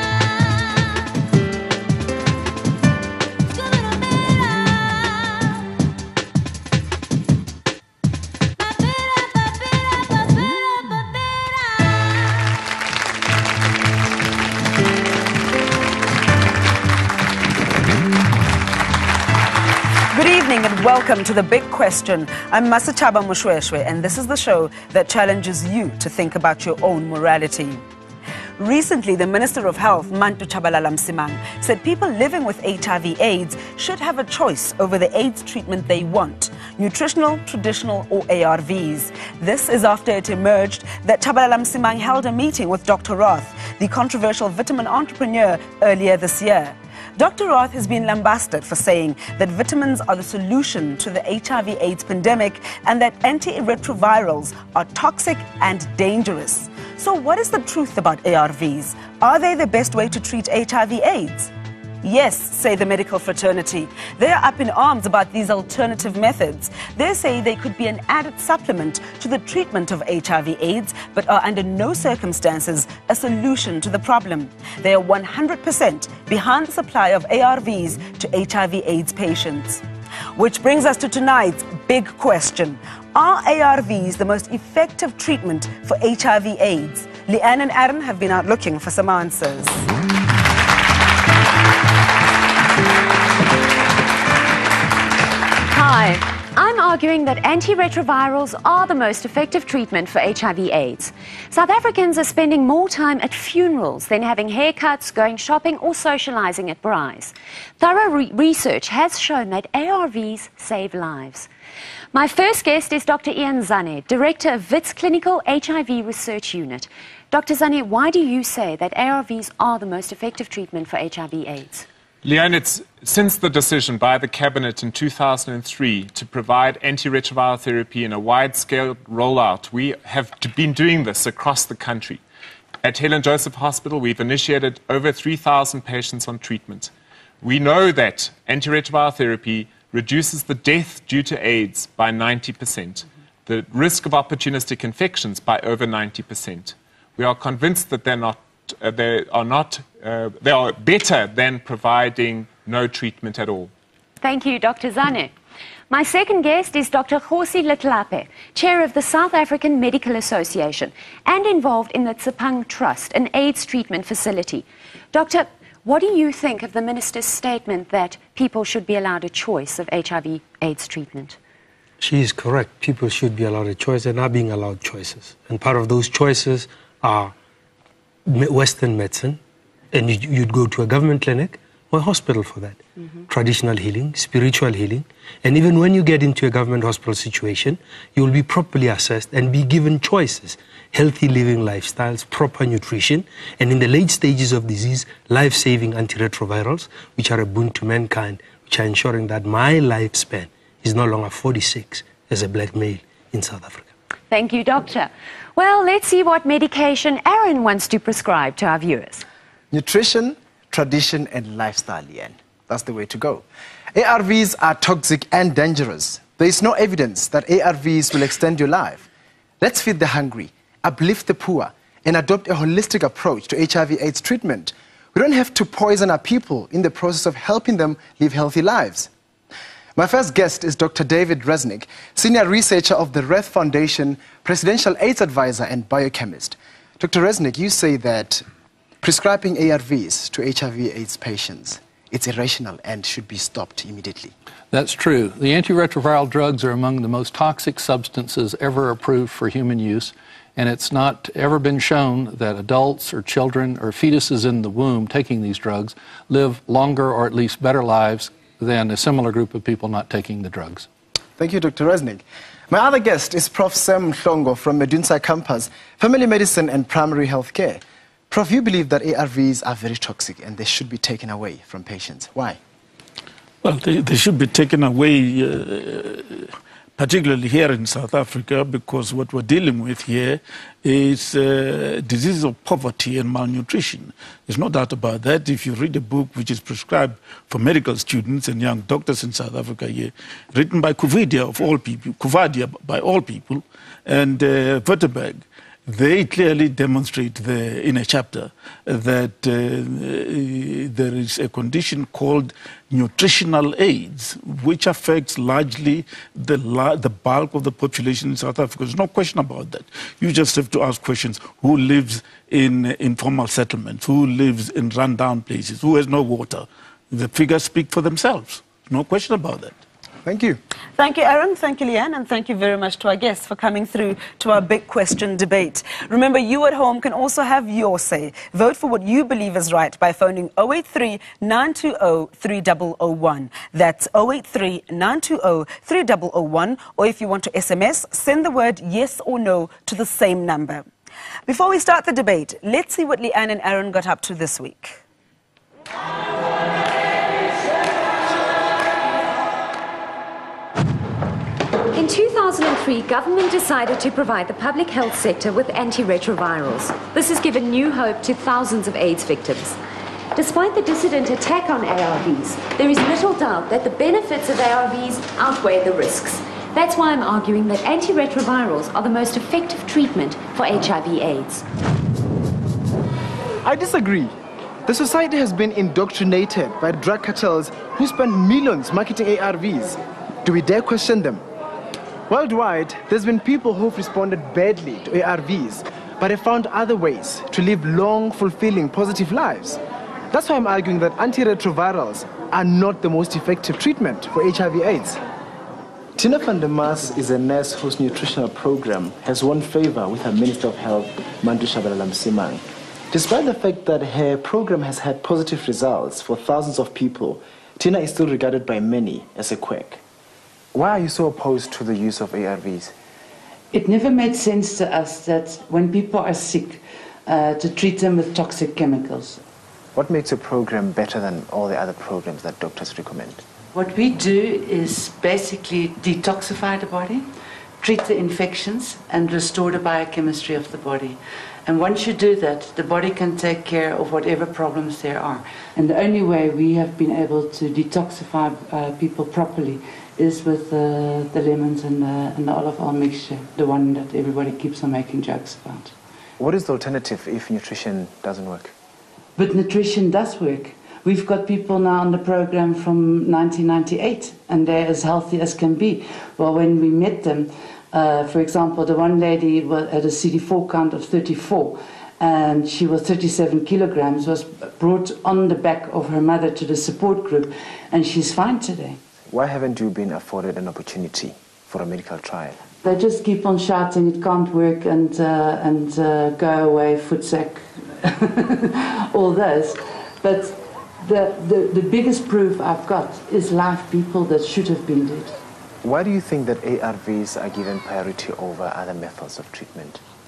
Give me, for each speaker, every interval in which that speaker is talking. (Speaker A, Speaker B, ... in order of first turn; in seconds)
Speaker A: 20.1-27.8, 28.6-61.5, 62.0-79.8, 80.3-89.9, 321.0-340.8, 341.5-345.0
Speaker B: 95.7-111.5, 112.1-121.8, 154.2-155.3, 155.9-171.4, 204.3-209.2, 351.9-359.8, 360.3-371.6
Speaker C: 122.2-132.2, 132.8-136.9, 137.4-153.7
Speaker D: 172.0-177.3, 178.2-179.4, 179.9-203.9
Speaker E: 209.7-219.1, 219.6-229.1, 229.9-238.4, 239.0-244.3, 261.4-272.6, 320.2-320.6, 373.6-374.3, 374.9-381.4, 382.3-389.8, 390.3-395.2, 396.1-410.0, 410.7-412.9, 419.9-423.4, 446.4-448.7, 469.3-472.6, 485.8-490.0
Speaker F: 244.7-260.9
Speaker G: 273.6-319.8
Speaker H: 413.7-419.4, 423.7-427.3, 427.8-445.9, 449.4-469.0, 472.8-485.3